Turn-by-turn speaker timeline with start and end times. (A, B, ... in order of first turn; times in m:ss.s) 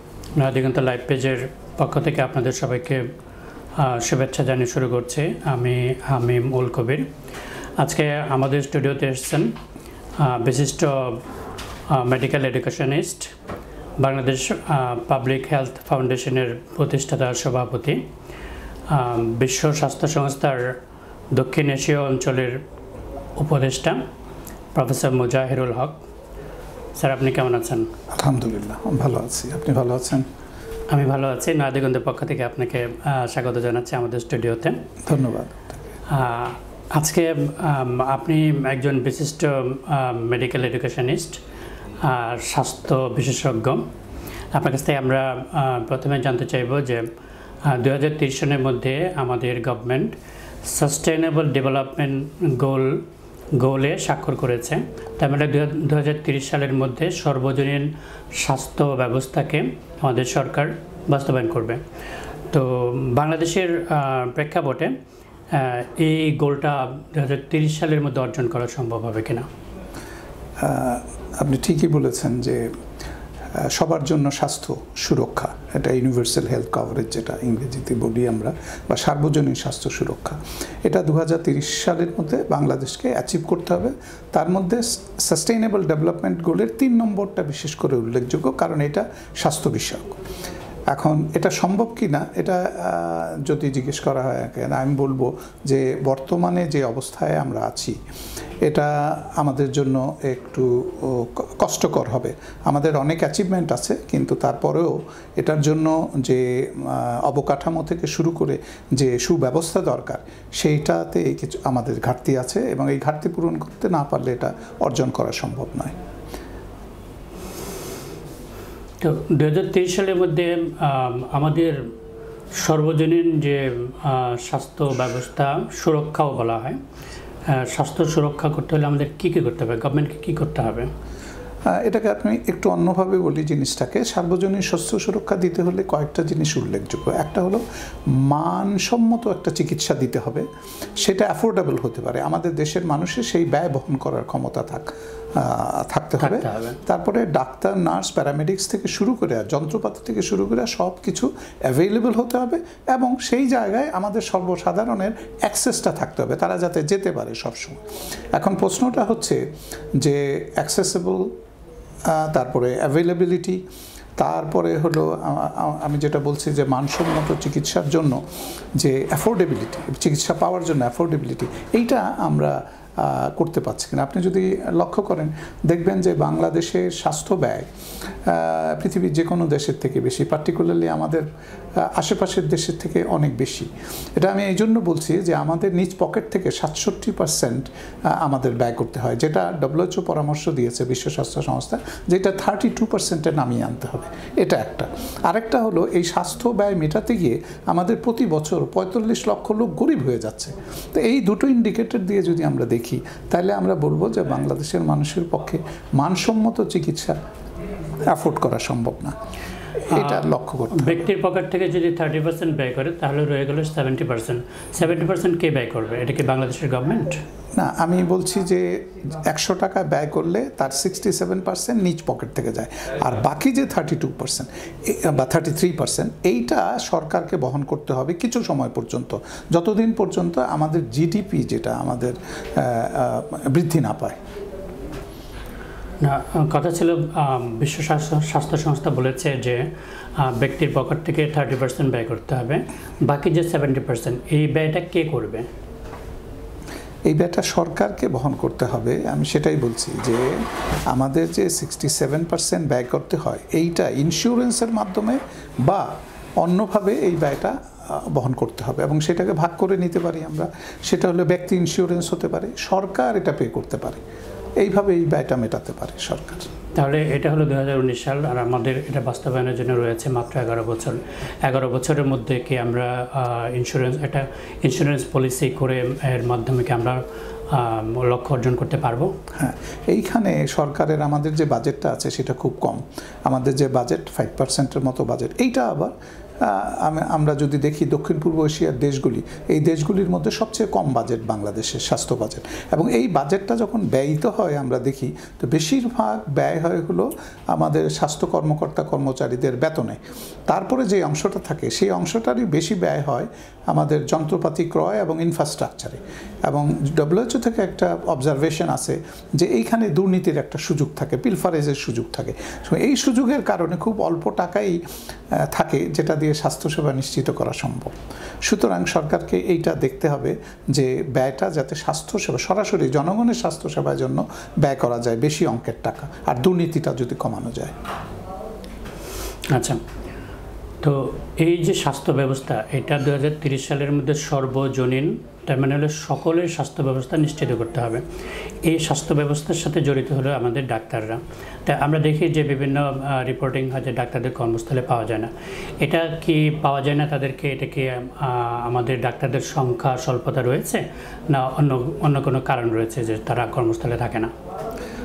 0:00.4-0:03.0 A
0:03.8-0:07.1 A
0:07.8-0:09.5 A
0:10.2-0:11.2 A
0:11.9-0:13.3 A
0:14.0-0:18.0 A
0:18.9-0:20.8 A
0:21.3-0:22.6 A
0:23.4-0:24.0 A
0:24.7-0:26.0 A
0:27.0-0:27.9 A
0:28.1-0:30.2 B
0:30.9-0:34.8 A
0:35.0-0:35.7 B
0:36.1-0:41.4 A
0:42.0-0:43.8 A
0:44.5-0:47.0 A
0:47.6-0:50.1 A
0:50.7-0:53.0 A
0:53.5-1:01.8 A
1:02.5-1:04.9 A
1:05.5-1:09.5 A
1:10.6-1:12.7 B
1:13.6-1:30.2 B
1:30.9-1:38.0 B
1:38.6-1:55.9 B
1:59.0-2:01.8 A
2:02.6-2:06.8 A
2:07.5-2:10.9 A
2:11.7-2:20.4 B
2:21.0-2:37.8 B
2:26.2-2:26.8 A
2:38.3-2:39.4 B
2:40.0-2:41.3 B
2:42.1-2:43.6 B
2:44.2-2:48.2 B
2:48.8-2:57.7 B
2:58.3-3:01.2 B
3:01.8-3:27.2 B
3:28.1-3:29.1 B
3:29.9-3:31.0 B
3:29.9-3:37.2 A
3:37.6-3:54.2 B
3:56.0-3:59.6 A
4:00.2-4:05.4 A
4:07.1-4:10.4 B
4:10.9-4:15.9 B
4:16.4-4:24.0 B
4:24.6-4:26.5 B
4:26.8-4:39.1 A
4:39.4-5:14.8 B
5:15.3-5:27.7 B
5:29.5-5:29.8 A
5:30.8-5:38.0 A
5:38.6-5:54.3 A